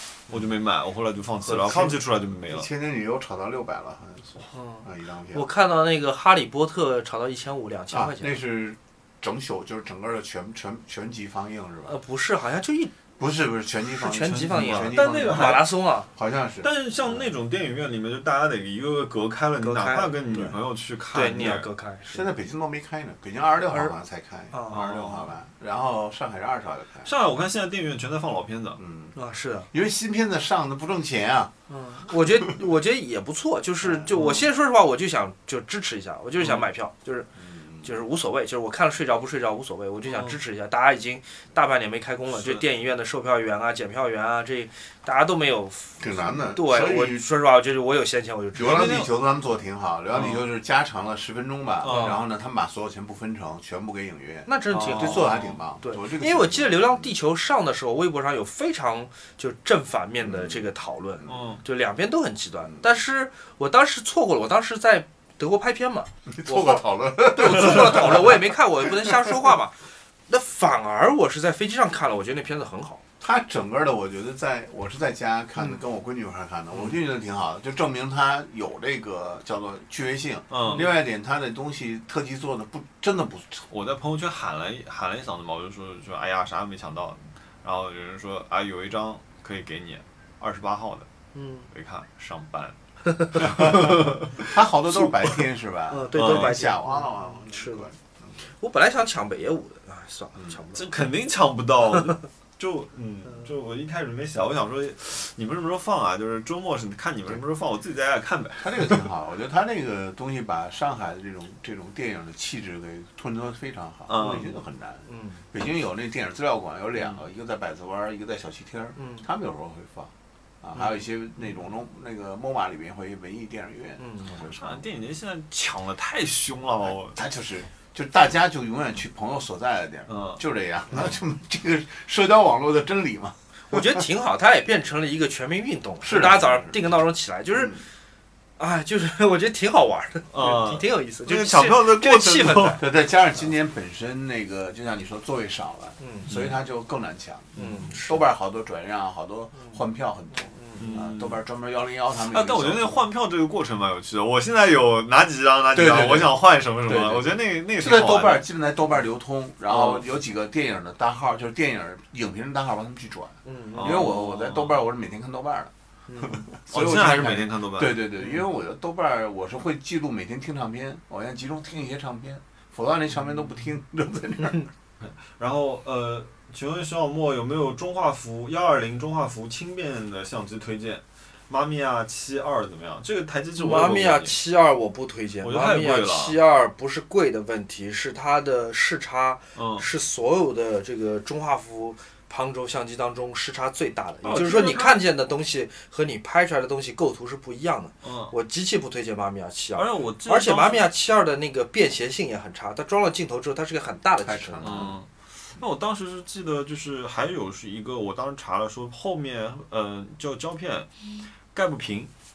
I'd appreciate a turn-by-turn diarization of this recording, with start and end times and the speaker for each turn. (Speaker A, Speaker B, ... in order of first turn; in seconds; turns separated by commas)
Speaker A: 0.3-2.7, Speaker B: 1.4-5.5, Speaker C: 4.5-8.4, Speaker B: 7.9-11.9, Speaker C: 11.9-12.9, Speaker B: 13.2-17.3, Speaker C: 14.0-16.1, Speaker A: 14.3-15.7, Speaker A: 16.6-21.7, Speaker C: 19.6-20.5, Speaker C: 21.1-22.2, Speaker B: 22.1-27.1, Speaker C: 23.7-23.9, Speaker C: 24.5-24.9, Speaker A: 24.7-25.3, Speaker A: 27.0-28.8, Speaker B: 28.8-29.1, Speaker C: 29.1-29.7, Speaker B: 29.7-31.5, Speaker C: 31.7-37.3, Speaker B: 33.8-34.1, Speaker A: 34.1-34.5, Speaker A: 36.4-36.6, Speaker B: 37.4-37.9, Speaker C: 37.8-49.0, Speaker A: 40.0-40.4, Speaker A: 42.3-42.6, Speaker B: 46.0-47.2, Speaker B: 48.5-57.1, Speaker A: 48.6-49.1, Speaker A: 50.1-50.4, Speaker A: 51.8-52.2, Speaker C: 51.8-52.2, Speaker C: 54.5-73.0, Speaker A: 54.7-55.6, Speaker B: 60.2-60.6, Speaker A: 61.2-61.6, Speaker B: 66.3-69.3, Speaker B: 73.2-83.6, Speaker A: 80.5-80.9, Speaker A: 83.7-91.1, Speaker C: 91.3-91.7, Speaker A: 91.7-94.5, Speaker B: 93.4-98.4, Speaker C: 95.9-97.9, Speaker A: 96.1-96.7, Speaker C: 98.5-100.9, Speaker A: 100.7-109.0, Speaker B: 108.6-120.1, Speaker A: 114.1-114.5, Speaker C: 115.1-115.4, Speaker C: 119.0-119.2, Speaker B: 120.6-124.8, Speaker C: 124.0-124.4, Speaker A: 124.4-127.2, Speaker B: 126.8-134.0, Speaker A: 130.1-130.4, Speaker C: 133.7-137.8, Speaker B: 136.0-136.8, Speaker B: 137.5-137.9, Speaker C: 138.6-142.8, Speaker A: 140.3-142.8, Speaker B: 142.8-153.0, Speaker C: 146.0-146.3, Speaker A: 146.3-146.6, Speaker A: 147.6-147.9, Speaker C: 147.6-148.2, Speaker C: 150.3-150.9, Speaker A: 150.8-151.4, Speaker A: 152.3-158.5, Speaker B: 155.7-165.7, Speaker A: 159.7-160.0, Speaker C: 163.4-164.0, Speaker A: 163.7-164.8, Speaker C: 166.1-166.5, Speaker B: 166.3-174.7, Speaker A: 166.7-168.1, Speaker A: 175.0-184.4, Speaker C: 183.6-204.9, Speaker A: 185.4-186.4, Speaker A: 189.5-189.9, Speaker A: 194.2-195.0, Speaker A: 198.0-198.3, Speaker A: 199.7-200.9, Speaker B: 204.2-205.0, Speaker A: 204.6-210.9, Speaker A: 211.5-212.1